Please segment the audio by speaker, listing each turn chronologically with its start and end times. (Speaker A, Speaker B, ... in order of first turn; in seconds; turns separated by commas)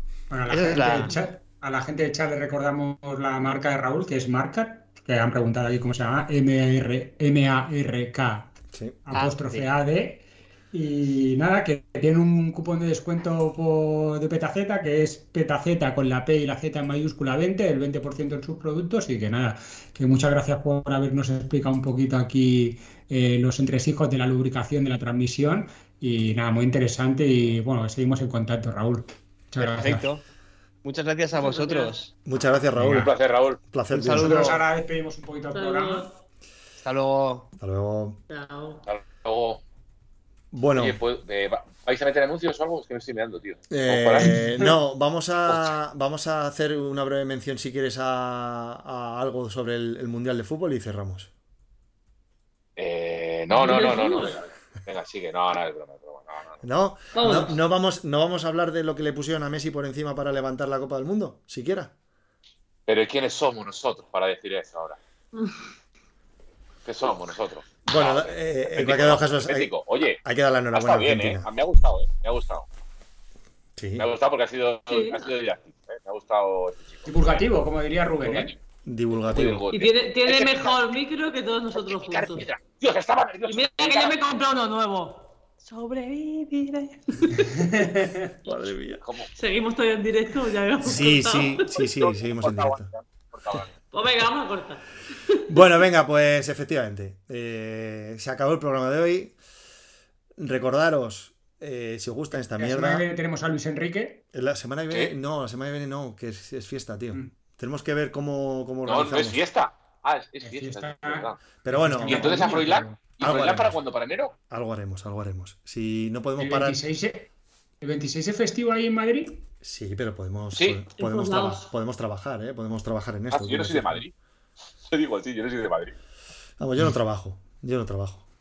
Speaker A: 0.3-8.5, Speaker B: 0.5-1.2, Speaker C: 8.7-9.0, Speaker A: 9.1-30.1, Speaker B: 9.1-9.7, Speaker B: 29.6-30.2, Speaker B: 30.8-32.1, Speaker D: 31.4-31.9, Speaker C: 32.2-33.1, Speaker E: 32.8-33.6, Speaker C: 33.7-34.6, Speaker B: 33.9-34.6, Speaker A: 34.1-36.1, Speaker D: 35.5-36.1, Speaker B: 36.8-37.5, Speaker C: 37.6-38.2, Speaker D: 38.3-38.8, Speaker E: 38.9-39.6, Speaker C: 40.5-41.0, Speaker E: 40.8-44.4, Speaker C: 43.7-51.3, Speaker E: 45.5-45.8, Speaker E: 52.8-56.6, Speaker D: 53.5-54.4, Speaker C: 56.6-61.9, Speaker D: 57.1-57.6, Speaker E: 62.9-65.0, Speaker E: 66.8-70.2, Speaker C: 67.9-69.7, Speaker C: 70.2-71.5, Speaker E: 70.7-72.7, Speaker C: 73.8-74.1, Speaker E: 74.0-77.5, Speaker D: 74.9-75.2, Speaker A: 77.1-78.5, Speaker E: 78.2-78.6, Speaker C: 78.8-79.6, Speaker E: 79.2-80.9, Speaker D: 79.7-82.5, Speaker E: 81.8-84.2, Speaker D: 83.5-87.5, Speaker A: 87.4-88.2, Speaker C: 88.4-89.0, Speaker E: 89.0-89.3, Speaker D: 89.4-91.7, Speaker C: 90.8-92.9, Speaker E: 91.6-93.7, Speaker D: 93.9-95.6, Speaker C: 95.5-99.4, Speaker C: 100.4-103.0, Speaker A: 102.6-104.2, Speaker C: 104.3-109.4, Speaker E: 108.9-111.4, Speaker A: 110.4-113.0, Speaker C: 111.6-112.6, Speaker E: 112.0-114.3, Speaker C: 113.2-113.8, Speaker C: 114.5-116.8, Speaker A: 116.4-117.3, Speaker A: 117.8-119.4, Speaker C: 119.6-124.0, Speaker E: 120.6-120.8, Speaker D: 121.0-121.7, Speaker E: 123.3-124.1, Speaker E: 124.9-126.0, Speaker C: 126.6-128.2